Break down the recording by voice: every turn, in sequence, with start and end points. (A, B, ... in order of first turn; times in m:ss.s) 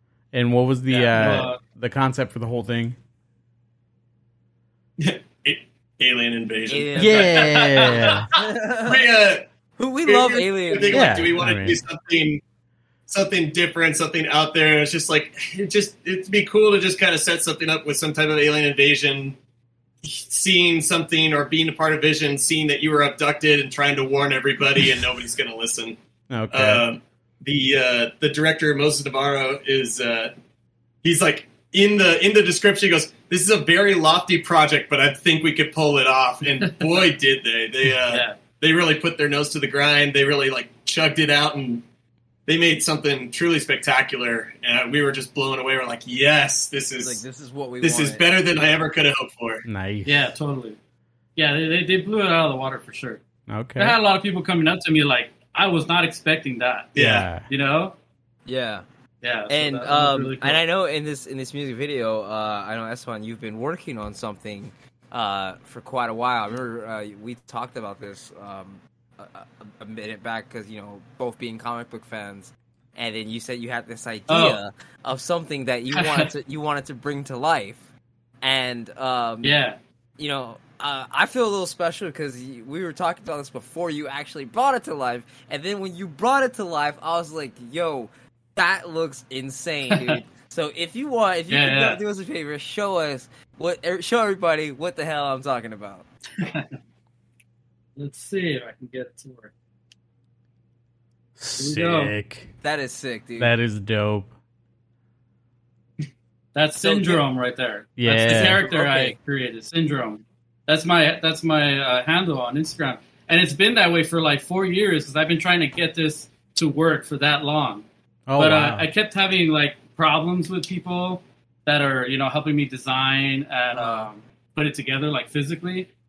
0:00.3-0:03.0 A
0:00.9-0:01.2 B
0:01.1-0:01.6 C
0:05.0-0:07.2 D
0:06.7-0:09.0 B
0:07.0-0:08.3 A
0:07.2-0:08.3 C
0:08.8-0:09.4 D
0:09.8-0:11.3 B
0:10.0-0:12.4 D
0:10.9-0:11.8 A
0:13.1-0:19.4 D
0:20.0-0:26.0 D
0:26.3-0:26.8 A
0:26.5-0:30.3 D
0:31.0-0:41.8 D
0:36.6-0:37.1 C
0:38.1-0:38.4 C
0:42.5-0:47.2 D
0:47.0-0:48.3 B
0:47.8-0:49.6 D
0:49.6-0:50.3 A
0:50.0-0:50.8 C
0:51.4-0:53.2 C
0:53.5-0:54.0 A
0:53.8-0:57.9 C
0:56.9-0:57.3 D
0:56.9-0:57.4 A
0:58.4-0:58.8 B
0:59.2-1:00.6 C
0:59.5-1:17.8 B
1:14.3-1:14.6 C
1:15.9-1:16.3 C
1:18.4-1:19.6 B
1:19.4-1:19.8 C
1:20.2-1:36.1 B
1:29.9-1:30.2 C
1:31.5-1:32.0 C
1:36.4-1:36.7 C
1:38.0-1:39.5 C
1:41.4-1:42.5 A
1:41.6-1:42.1 C
1:42.6-1:43.5 B
1:43.4-1:44.3 A
1:46.5-1:57.8 C
1:46.8-1:47.2 B
1:48.0-1:48.6 A
1:48.3-1:49.2 B
1:58.3-1:58.9 A
1:58.4-2:05.9 C
2:03.7-2:04.1 B